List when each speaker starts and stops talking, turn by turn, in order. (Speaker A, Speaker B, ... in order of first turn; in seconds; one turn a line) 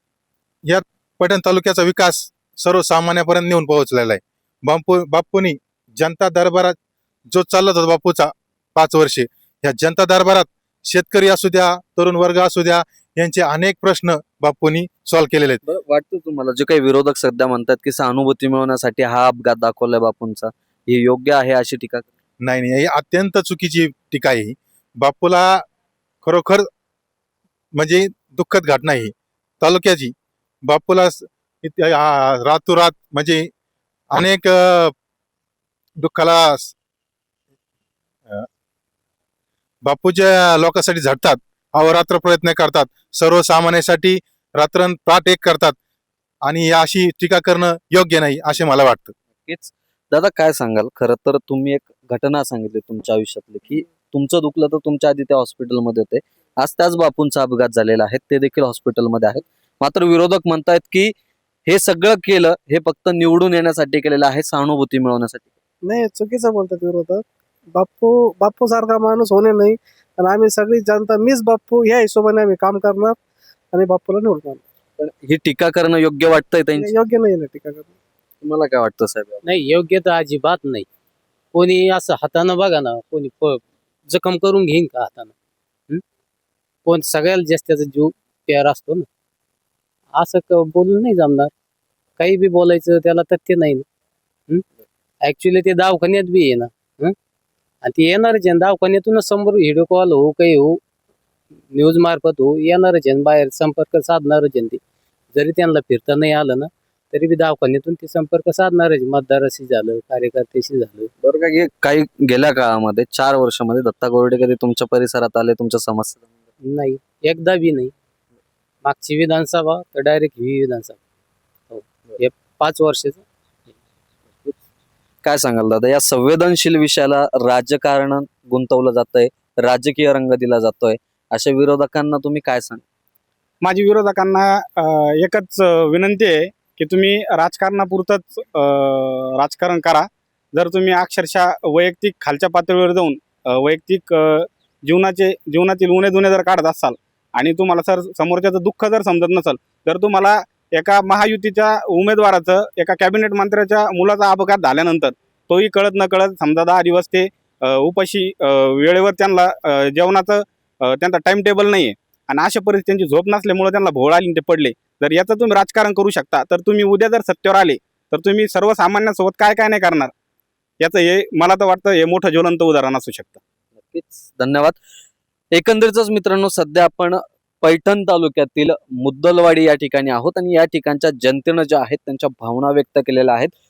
Speaker A: 0.7-6.7
Speaker A: 7.3-15.6
Speaker B: 15.6-22.1
Speaker A: 22.4-25.6
Speaker A: 26.2-26.6
Speaker A: 27.7-30.1
Speaker A: 30.6-33.5
Speaker A: 34.1-34.9
Speaker A: 36.0-36.7
Speaker A: 39.8-45.8
Speaker A: 46.4-49.1
Speaker B: 49.4-61.1
Speaker B: 61.6-65.5
Speaker C: 65.8-67.2
Speaker C: 67.7-73.2
Speaker C: 73.7-74.6
Speaker B: 75.0-76.9
Speaker C: 76.8-77.9
Speaker B: 78.4-79.4
Speaker D: 79.4-80.8
Speaker D: 81.5-85.3
Speaker D: 86.8-89.0
Speaker D: 90.1-91.5
Speaker D: 92.2-93.8
Speaker D: 95.2-97.1
Speaker D: 97.8-100.8
Speaker D: 101.7-104.8
Speaker D: 105.3-111.1
Speaker B: 111.2-116.2
Speaker D: 116.6-117.9
Speaker D: 118.8-121.0
Speaker D: 121.7-123.2
Speaker B: 125.2-132.8
Speaker E: 133.6-170.1
Speaker E: 170.8-173.4
Speaker B: 173.9-174.8
Speaker B: 175.5-183.5